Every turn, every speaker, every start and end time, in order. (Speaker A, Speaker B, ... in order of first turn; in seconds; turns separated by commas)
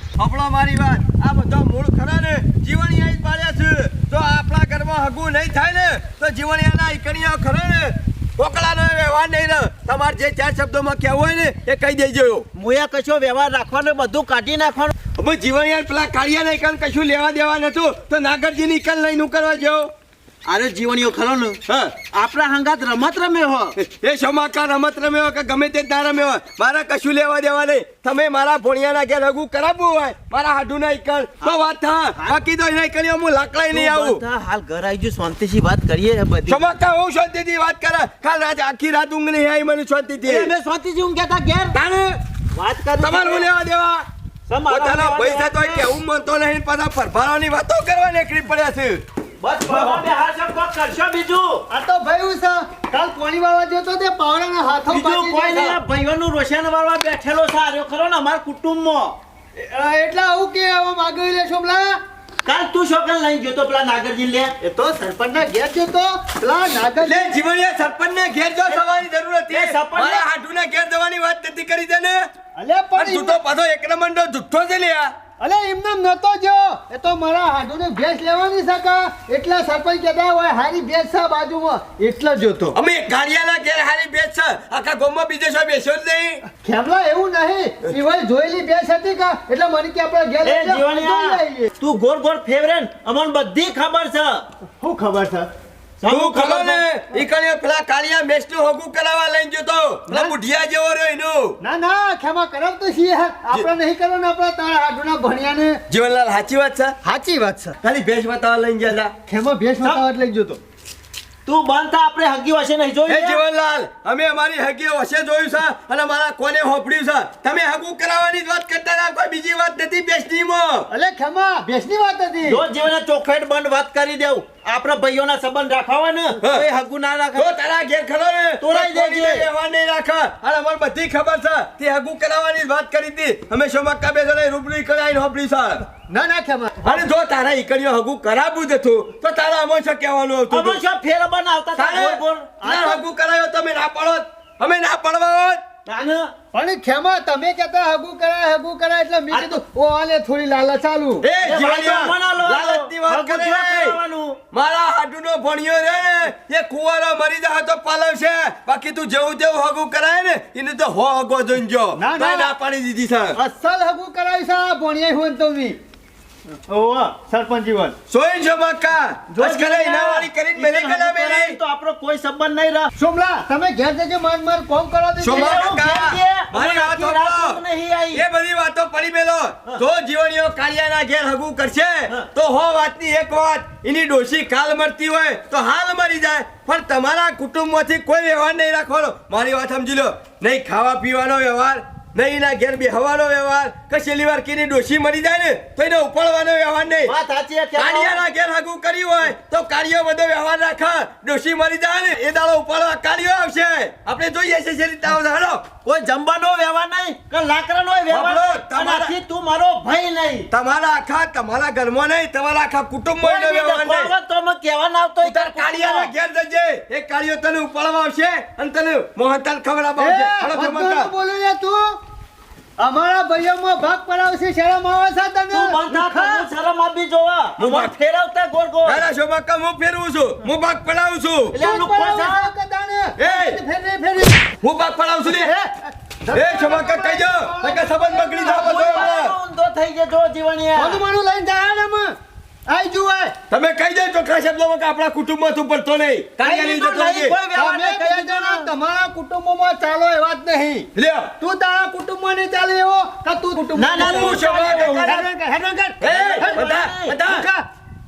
Speaker A: 0.2-12.5, Speaker B: 12.5-14.9, Speaker A: 15.2-19.9, Speaker B: 20.4-21.6, Speaker A: 21.7-21.9, Speaker B: 22.1-23.8, Speaker A: 23.8-34.2, Speaker B: 33.7-36.6, Speaker A: 36.5-40.5, Speaker B: 40.2-41.8, Speaker A: 41.7-42.2, Speaker B: 42.5-43.5, Speaker A: 43.0-44.0, Speaker B: 44.5-45.9, Speaker A: 44.7-49.0, Speaker B: 49.4-51.7, Speaker C: 49.7-50.0, Speaker C: 51.7-55.8, Speaker B: 54.9-59.2, Speaker C: 59.5-62.0, Speaker B: 62.4-64.5, Speaker C: 64.6-67.3, Speaker A: 67.0-72.3, Speaker B: 69.5-70.2, Speaker C: 72.5-73.4, Speaker A: 73.0-75.1, Speaker C: 75.4-82.8, Speaker A: 82.7-86.4, Speaker C: 86.6-91.7, Speaker B: 90.4-94.4, Speaker C: 94.8-95.5, Speaker B: 96.0-96.8, Speaker A: 96.1-101.6, Speaker C: 100.1-100.3, Speaker C: 101.6-105.8, Speaker A: 105.9-107.0, Speaker C: 107.0-107.8, Speaker A: 107.8-109.1, Speaker C: 109.3-110.6, Speaker B: 111.5-113.4, Speaker A: 113.1-120.9, Speaker C: 120.9-122.6, Speaker B: 122.4-127.5, Speaker A: 127.3-135.8, Speaker B: 128.6-129.4, Speaker C: 136.1-137.0, Speaker A: 136.8-140.8, Speaker B: 140.5-143.0, Speaker A: 141.8-145.6, Speaker B: 145.8-146.3, Speaker C: 146.5-151.2, Speaker B: 149.3-149.6, Speaker A: 151.2-154.0, Speaker B: 151.4-154.4, Speaker A: 154.5-163.4, Speaker C: 162.0-162.5, Speaker C: 163.3-165.8, Speaker B: 166.7-167.1, Speaker C: 167.1-167.9, Speaker A: 168.1-171.6, Speaker B: 169.4-172.9, Speaker C: 173.0-175.7, Speaker A: 175.2-177.6, Speaker B: 175.3-178.2, Speaker A: 178.1-197.1, Speaker B: 197.0-198.2, Speaker A: 197.8-205.6, Speaker B: 205.8-210.5, Speaker A: 208.1-209.1, Speaker A: 210.5-214.1, Speaker B: 213.2-216.1, Speaker A: 215.2-221.1, Speaker C: 220.0-222.0, Speaker C: 222.8-226.4, Speaker B: 225.5-229.0, Speaker A: 227.6-227.9, Speaker A: 228.8-231.5, Speaker B: 231.5-232.5, Speaker C: 231.5-234.5, Speaker A: 233.2-233.6, Speaker A: 234.6-235.5, Speaker C: 235.2-239.1, Speaker A: 236.3-239.3, Speaker B: 238.4-241.0, Speaker C: 240.8-242.1, Speaker C: 242.7-243.3, Speaker A: 243.5-247.3, Speaker B: 246.4-248.7, Speaker C: 247.5-250.9, Speaker A: 250.9-251.3, Speaker C: 251.4-256.6, Speaker B: 253.7-255.2, Speaker A: 253.9-255.2, Speaker A: 256.0-257.5, Speaker B: 256.1-257.2, Speaker C: 257.2-257.6